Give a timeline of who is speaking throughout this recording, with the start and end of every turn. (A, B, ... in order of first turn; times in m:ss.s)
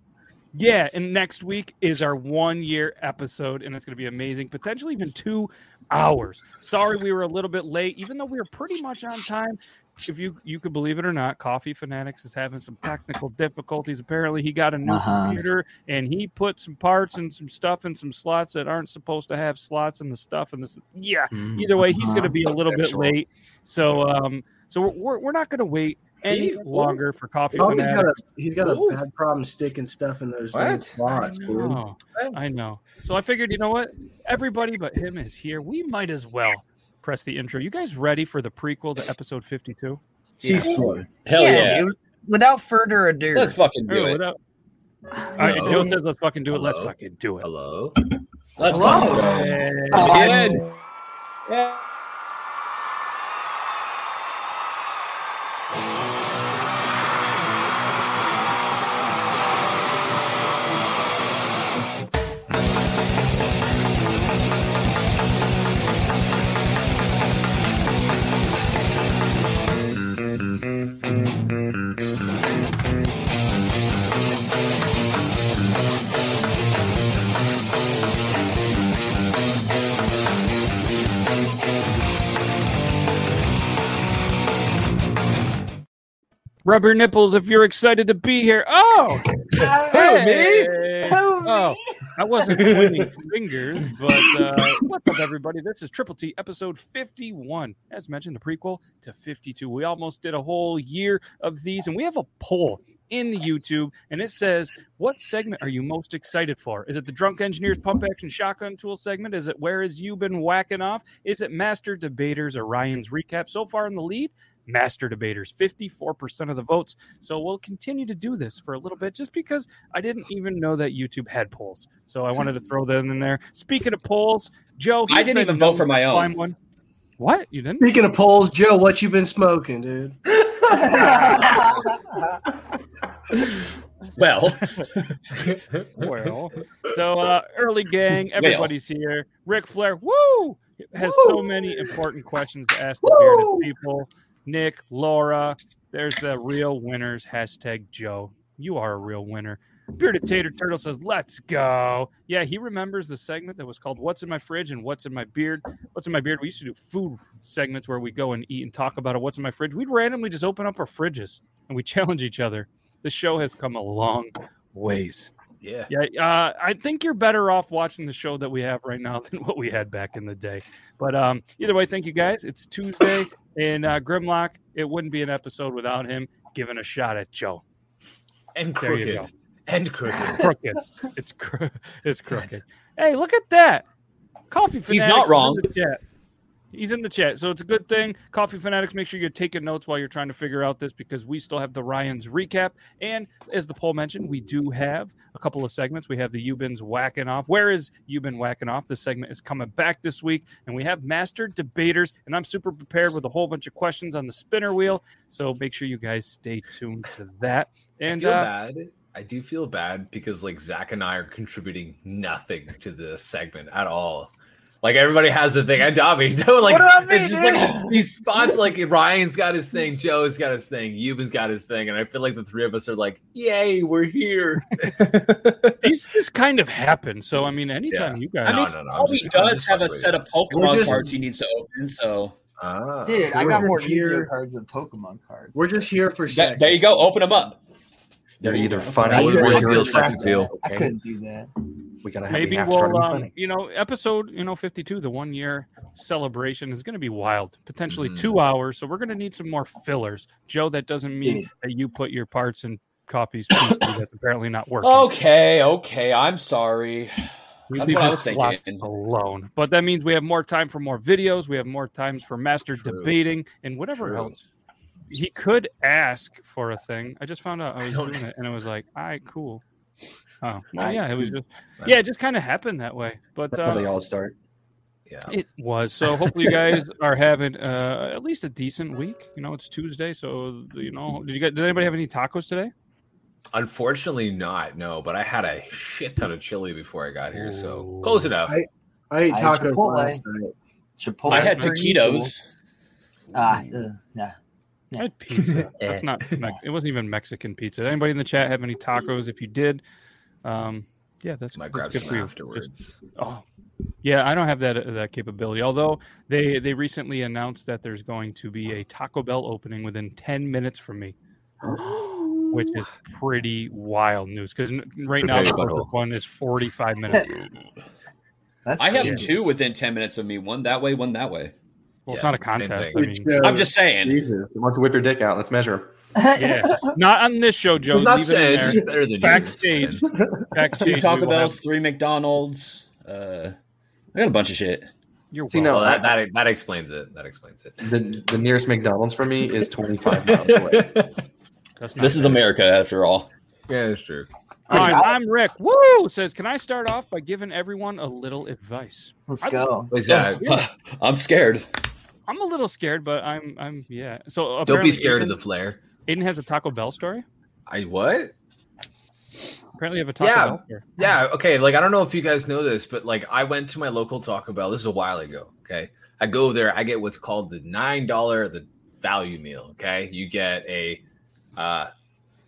0:00.6-0:28.2 A
0:14.9-0:15.4 B
0:21.9-0:22.3 B
0:26.3-0:27.0 C
0:27.5-0:31.8 D
0:28.7-0:29.0 C
0:30.5-0:31.6 C
0:31.4-0:40.0 A
0:40.4-0:41.0 D
0:40.5-0:40.9 C
0:41.2-0:41.9 E
0:41.4-0:43.6 B
0:43.3-0:44.2 E
0:43.9-0:44.4 A
0:45.2-0:46.0 B
0:45.4-0:47.5 A
0:45.4-0:46.0 C
0:46.5-0:48.0 C
0:48.6-0:50.6 E
0:48.7-0:49.2 B
0:48.8-0:50.7 C
0:48.9-0:50.2 A
0:49.9-0:50.6 B
0:51.5-0:51.8 E
1:26.6-2:06.6 A
1:29.6-1:30.8 C
1:29.6-1:30.0 B
1:31.1-1:31.8 B
1:32.5-1:33.1 C
2:05.1-2:06.3 E
2:07.2-2:07.9 A
2:07.8-2:11.6 D
2:10.7-2:12.2 B
2:14.2-2:15.1 E
2:16.0-2:45.3 A
2:18.4-2:18.7 E
2:21.0-2:21.5 D
2:23.0-2:23.6 D
2:45.6-2:45.9 C
2:45.9-2:57.6 A
2:58.6-3:00.4 C
2:58.8-2:59.3 A
3:00.4-3:03.8 A
3:04.5-3:06.0 A
3:04.9-3:05.6 E
3:06.7-3:28.5 A
3:28.1-3:34.3 C
3:34.8-3:45.8 C
3:36.6-3:38.5 B
3:45.8-3:49.3 A
3:47.9-3:50.2 C
3:48.4-3:52.4 E
3:50.5-3:51.1 D
3:52.6-3:53.3 C
3:53.0-3:55.7 B
3:53.3-3:54.3 D
3:55.6-3:57.0 D
3:56.3-3:57.6 E
3:58.4-4:00.9 F
3:58.6-4:00.4 D
3:59.0-4:01.5 B
3:59.1-4:00.5 C
4:02.0-4:03.3 F
4:02.3-4:15.1 A
4:07.9-4:08.4 C
4:11.2-4:11.5 B
4:14.8-4:17.1 E
4:17.7-4:24.4 A
4:17.7-4:18.9 E
4:22.8-4:23.2 C
4:24.0-4:24.4 C
4:25.1-4:29.6 A
4:27.8-4:28.2 C
4:30.4-4:33.9 A
4:33.5-4:34.3 F
4:35.1-4:35.3 C
4:35.3-4:42.7 A
4:43.5-4:48.6 C
4:47.3-4:48.3 A
4:48.5-4:50.5 D
4:49.3-4:50.2 B
4:51.0-4:52.3 B
4:51.3-4:52.4 E
4:51.3-4:51.7 A
4:53.3-4:54.3 B
4:55.0-4:59.8 A
4:55.4-4:56.0 C
5:00.4-5:03.4 A
5:01.5-5:02.9 C
5:04.0-5:11.2 A
5:11.7-5:12.8 C
5:12.5-5:17.3 A
5:15.2-5:15.9 C
5:18.7-5:19.5 B
5:18.8-5:21.5 E
5:22.1-5:23.3 A
5:22.1-5:23.1 C
5:22.9-5:23.7 D
5:23.4-5:24.2 E
5:24.0-5:25.9 F
5:26.2-5:26.8 B
5:26.4-5:31.6 A
5:27.9-5:30.0 C
5:30.8-5:33.6 E
5:34.2-5:34.9 E
5:35.3-5:36.1 A
5:35.5-5:36.0 F
5:35.7-5:37.8 C
5:37.8-5:41.0 F
5:40.3-5:41.1 C
5:41.8-5:42.4 A
5:42.0-5:43.3 E
5:43.7-5:44.3 C
5:44.7-5:45.1 B
5:44.7-5:50.6 A
5:49.3-5:49.9 B
5:49.9-5:50.4 C
5:50.1-5:51.6 E
5:52.3-5:55.4 A
5:54.7-5:55.8 C
5:56.1-5:57.2 A
5:57.7-5:58.3 C
5:59.8-6:00.9 A
6:00.2-6:11.0 C
6:11.6-6:11.9 C